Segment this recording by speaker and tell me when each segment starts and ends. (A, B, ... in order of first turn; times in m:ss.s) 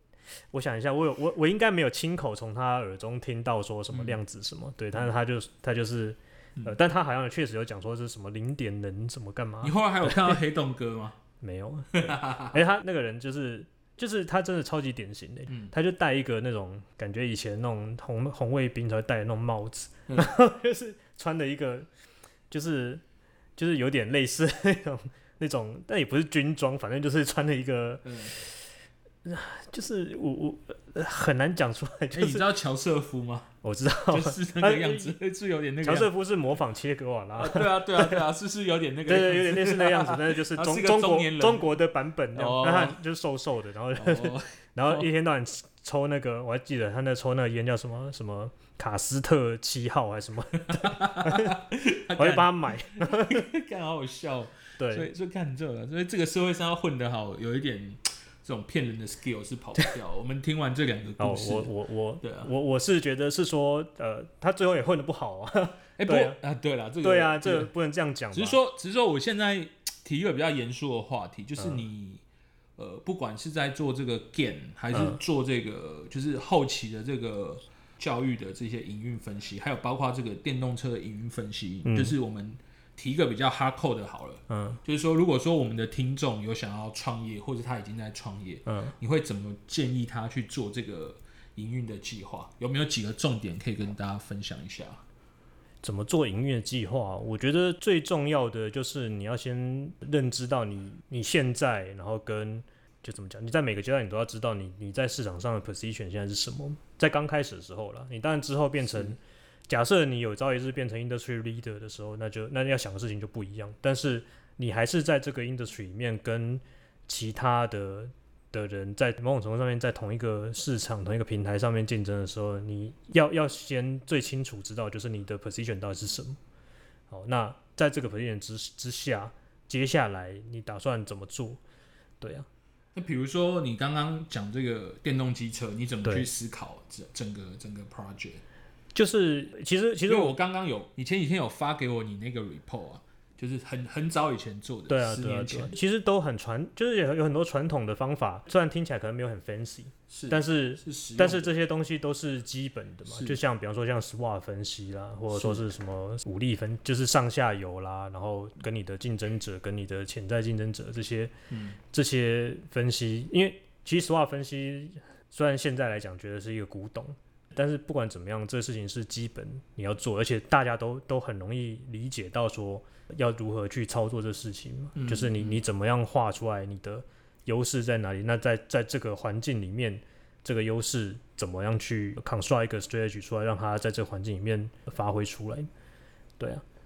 0:00.5-0:10.4 A
0:03.9-0:04.2 B
0:09.6-0:11.2 B
0:11.4-0:21.9 A
0:11.9-0:12.6 B
0:20.1-0:20.3 B
0:22.5-0:23.0 A
0:23.6-0:28.5 A
0:28.0-0:28.4 B
0:29.2-0:32.5 A
0:32.1-0:33.5 B
0:33.6-0:35.2 A
0:34.1-0:36.1 B
0:35.8-0:38.2 A
0:37.4-0:41.7 B
0:39.1-0:51.6 A
0:42.3-0:43.0 B
0:44.0-0:45.1 B
0:50.7-1:01.7 B
0:52.2-0:53.5 A
0:54.8-0:55.1 A
1:01.2-1:06.4 A
1:02.2-1:02.5 B
1:06.0-1:07.7 B
1:07.0-1:08.6 A
1:08.3-1:12.2 B
1:12.8-1:35.0 B
1:14.9-1:15.2 A
1:21.9-1:22.2 A
1:24.5-1:24.8 A
1:28.7-1:29.0 A
1:35.8-1:49.2 A
1:48.9-1:49.2 B
1:49.7-2:06.4 A
2:07.1-2:11.6 A
2:12.2-2:12.5 A
2:12.9-2:18.4 B
2:18.9-2:20.4 A
2:20.1-2:25.8 B
2:24.9-2:41.3 A
2:30.1-2:31.5 B
2:33.1-2:33.4 B
2:35.3-2:35.7 B
2:41.5-2:41.8 B
2:41.8-3:05.7 A
2:55.0-2:55.6 B